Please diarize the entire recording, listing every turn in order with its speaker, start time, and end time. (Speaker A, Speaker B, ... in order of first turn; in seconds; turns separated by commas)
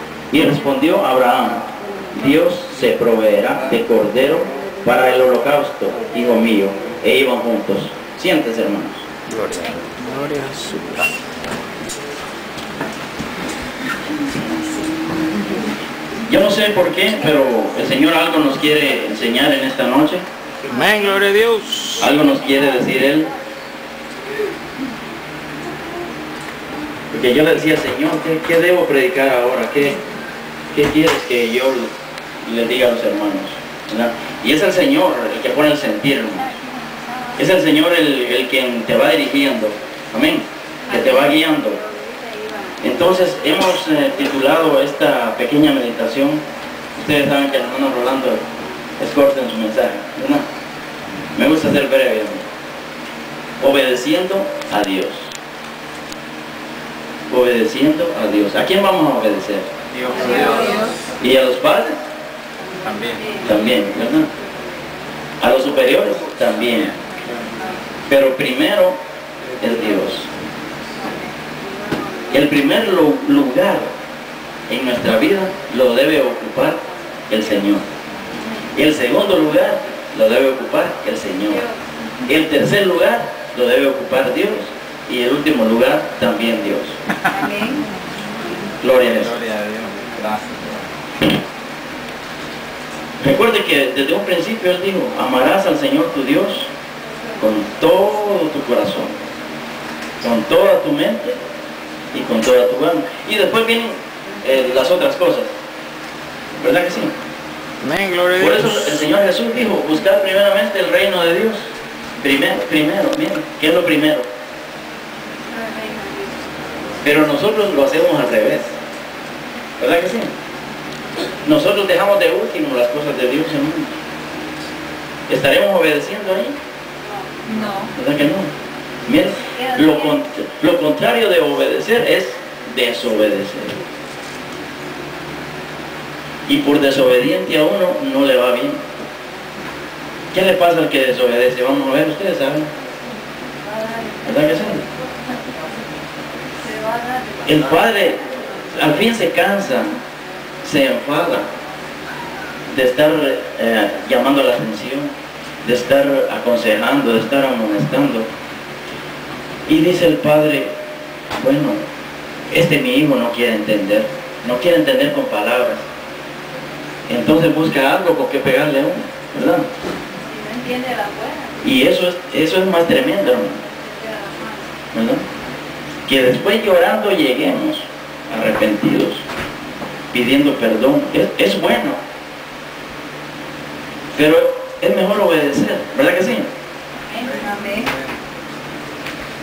Speaker A: 0.3-9.0, Speaker B: 9.3-11.1, Speaker A: 16.3-20.2, Speaker B: 20.7-22.0, Speaker A: 22.0-23.3, Speaker A: 27.1-30.0, Speaker A: 30.7-31.9, Speaker A: 32.4-36.6, Speaker A: 37.4-41.8, Speaker A: 42.8-46.4, Speaker A: 46.9-48.4, Speaker A: 49.0-50.4, Speaker A: 51.3-52.4, Speaker A: 53.6-55.4, Speaker A: 57.3-59.7, Speaker B: 60.0-60.9, Speaker A: 61.2-62.0, Speaker B: 62.8-63.3, Speaker A: 63.4-64.3, Speaker A: 65.4-67.0, Speaker A: 68.1-69.0, Speaker A: 69.6-70.3, Speaker A: 72.3-73.9, Speaker A: 74.7-77.8, Speaker A: 78.7-81.7, Speaker A: 82.2-87.0, Speaker C: 87.4-87.8, Speaker A: 88.8-89.4, Speaker B: 89.2-90.8, Speaker A: 93.2-96.7, Speaker A: 97.4-99.1, Speaker A: 100.2-101.4, Speaker A: 102.1-105.5, Speaker A: 106.6-107.1, Speaker B: 107.8-108.7, Speaker A: 108.3-114.3, Speaker C: 115.7-116.0, Speaker A: 117.0-118.8, Speaker A: 119.8-120.3, Speaker A: 121.4-123.9, Speaker A: 125.3-126.5, Speaker C: 127.5-127.9, Speaker A: 127.9-128.5, Speaker A: 129.1-133.8, Speaker A: 136.4-138.8, Speaker A: 140.3-142.7, Speaker A: 144.2-144.8, Speaker A: 147.4-150.0, Speaker A: 150.6-151.5, Speaker A: 152.7-155.1, Speaker A: 155.6-158.3, Speaker A: 159.7-160.7, Speaker A: 161.4-161.8, Speaker A: 162.5-165.8, Speaker A: 167.1-169.7, Speaker C: 170.4-171.4, Speaker A: 171.6-173.6, Speaker C: 174.0-174.5, Speaker A: 174.9-175.2, Speaker A: 176.1-179.2, Speaker A: 180.1-182.0, Speaker A: 184.1-186.5, Speaker C: 187.2-187.9